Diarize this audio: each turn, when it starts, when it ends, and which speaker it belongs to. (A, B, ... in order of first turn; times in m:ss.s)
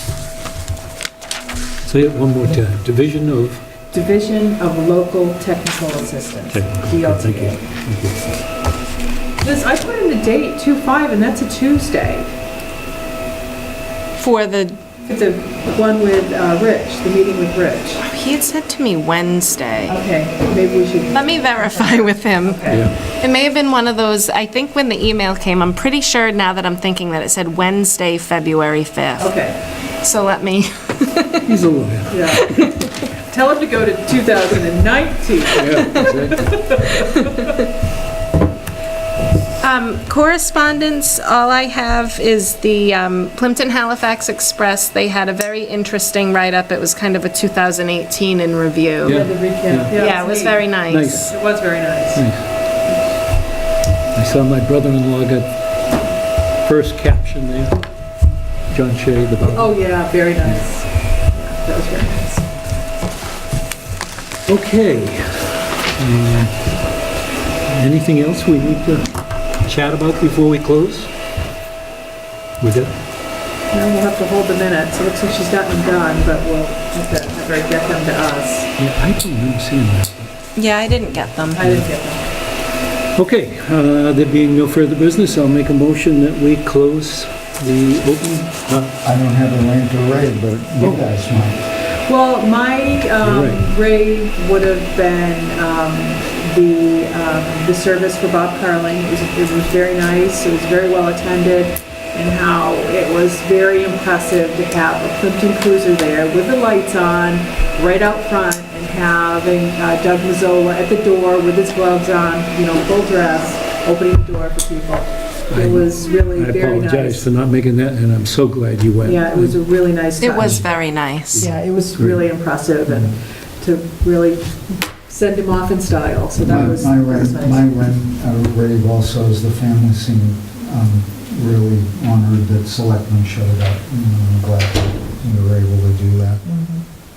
0:01.8-0:03.6 A
0:03.9-0:07.6 B
0:06.5-0:08.2 A
0:09.4-0:12.3 B
0:14.2-0:14.8 C
0:15.0-0:18.0 B
0:18.0-0:20.0 C
0:19.9-0:22.8 B
0:21.1-0:29.3 C
0:22.7-0:23.0 A
0:29.2-0:29.6 B
0:30.0-0:31.5 C
0:31.4-0:32.7 A
0:32.1-0:32.5 B
0:32.5-0:32.9 C
0:33.2-0:37.5 B
0:35.6-0:36.6 A
0:35.8-0:36.1 C
0:37.0-0:37.6 C
0:39.6-0:49.2 C
0:49.0-0:49.9 A
0:49.1-0:52.2 B
0:49.9-0:51.3 C
0:50.9-0:51.3 A
0:52.1-0:52.4 A
0:54.1-0:55.5 A
0:56.6-0:57.8 A
0:58.7-1:00.6 A
0:59.5-1:02.5 B
1:04.5-1:06.6 A
1:07.7-1:11.1 A
1:12.6-1:12.9 A
1:13.7-1:18.7 B
1:18.8-1:20.3 A
1:20.5-1:21.6 C
1:21.5-1:22.2 B
1:23.1-1:28.9 A
1:29.0-1:31.7 D
1:32.0-1:57.3 B
1:33.2-1:33.6 A
1:55.5-1:59.6 A
1:59.0-2:00.6 B
2:00.2-2:01.5 C
2:00.4-2:00.6 A
2:01.3-2:02.2 A
2:01.4-2:07.7 B
2:02.9-2:03.1 D
2:06.4-2:16.4 D
2:16.4-2:16.8 B